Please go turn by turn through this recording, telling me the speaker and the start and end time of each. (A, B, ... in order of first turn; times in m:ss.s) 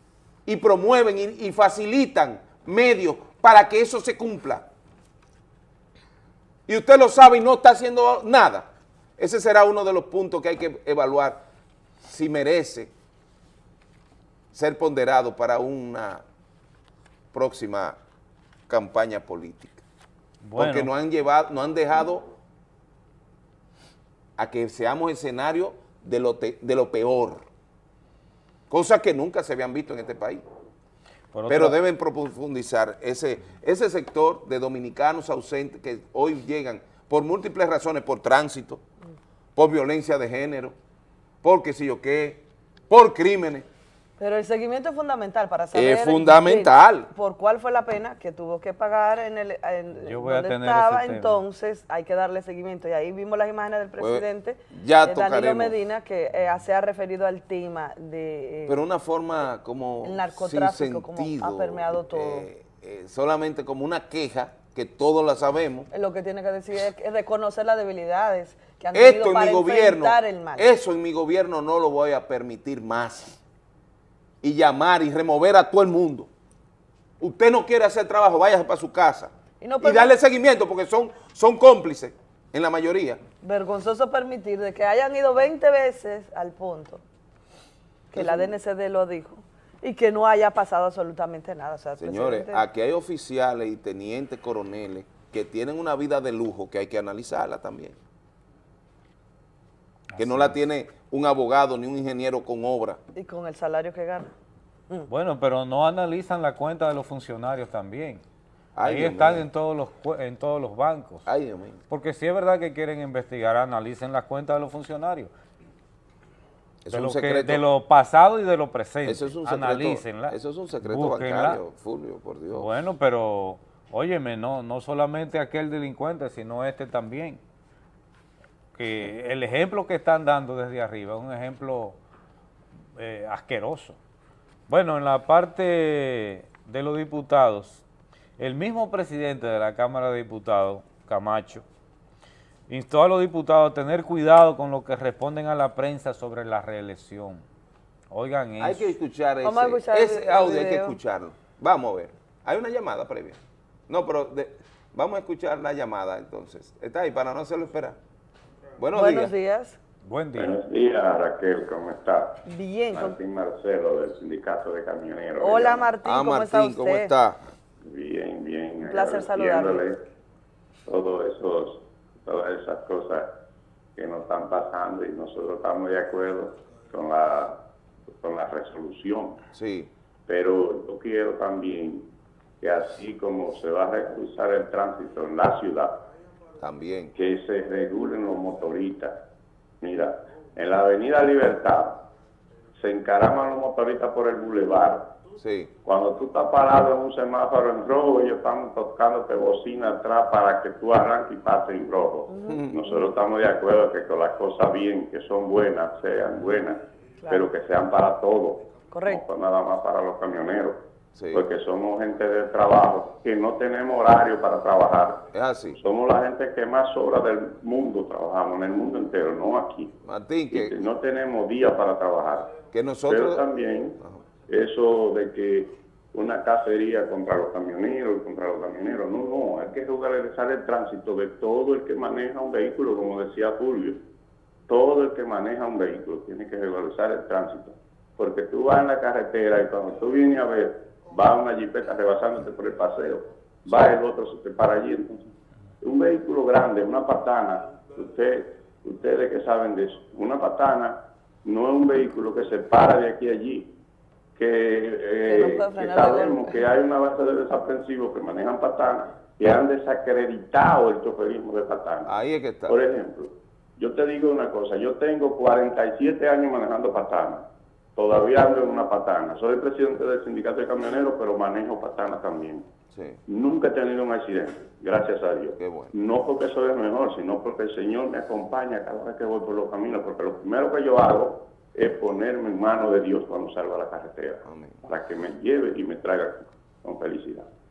0:00.4-0:04.7 A
0:06.7-0:11.4 A
0:12.0-0:12.9 A
0:14.5-0:16.2 A
0:17.3-0:18.0 A
0:18.7-0:19.8 A
0:20.4-0:20.9 B
0:20.6-0:22.3 A
0:24.4-0:27.4 A
0:28.7-0:30.4 A
0:31.3-0:31.8 B
0:31.5-0:38.8 A
0:39.5-0:40.8 A
0:41.4-0:43.6 A
0:44.2-0:58.8 C
0:45.7-0:47.1 A
0:50.0-0:51.4 B
0:54.0-0:55.8 A
0:58.7-1:05.9 A
1:00.0-1:02.5 C
1:05.9-1:10.7 C
1:08.9-1:13.4 A
1:14.4-1:16.3 A
1:17.2-1:23.2 A
1:19.6-1:20.1 C
1:23.4-1:27.0 C
1:28.1-1:32.6 C
1:28.1-1:28.5 A
1:32.0-1:38.0 A
1:40.1-1:40.6 B
1:40.2-1:43.0 A
1:43.1-1:44.3 C
1:45.1-1:48.2 B
1:48.7-1:49.5 A
1:48.8-1:51.2 B
1:51.2-1:51.8 A
1:51.9-1:55.3 B
1:56.8-1:57.6 A
1:56.9-2:01.6 B
1:59.0-2:02.7 A
2:02.5-2:07.4 B
2:08.8-2:12.0 B
2:13.0-2:14.0 B
2:14.7-2:17.8 B
2:18.4-2:21.6 B
2:22.7-2:27.4 B
2:28.1-2:29.0 B
2:28.6-2:38.0 A
2:29.4-2:31.0 C
2:38.8-2:39.3 A
2:38.9-2:39.8 C
2:40.0-2:40.6 B
2:40.4-2:42.4 D
2:42.5-2:43.2 C
2:42.9-2:45.9 D
2:45.4-2:47.1 C
2:46.0-2:47.4 A
2:47.8-2:50.0 D
2:48.8-2:49.8 C
2:50.9-2:53.2 D
2:54.0-2:57.6 D
2:58.2-2:59.4 D
2:59.5-2:59.9 A
3:00.3-3:02.1 D
3:02.6-3:06.0 D
3:06.6-3:07.1 A
3:07.1-3:09.2 D
3:09.8-3:12.0 D
3:12.8-3:15.0 D
3:15.4-3:15.7 A
3:15.8-3:30.8 D
3:22.3-3:23.0 C
3:27.2-3:27.5 C
3:28.9-3:29.2 C
3:31.1-3:31.5 A
3:31.3-3:35.2 D
3:35.3-3:35.8 A
3:35.8-3:39.9 D
3:40.0-3:40.8 A
3:40.5-3:42.6 D
3:42.7-3:43.4 A
3:43.1-3:44.0 D
3:44.5-3:54.0 D
3:54.7-4:05.2 D
4:05.8-4:13.7 D
4:14.4-4:22.1 D
4:15.2-4:16.7 C
4:22.0-4:22.7 A
4:22.7-4:27.4 D
4:28.0-4:32.6 D
4:32.9-4:33.2 A
4:33.3-4:47.4 D
4:35.6-4:35.9 A
4:44.4-4:44.8 A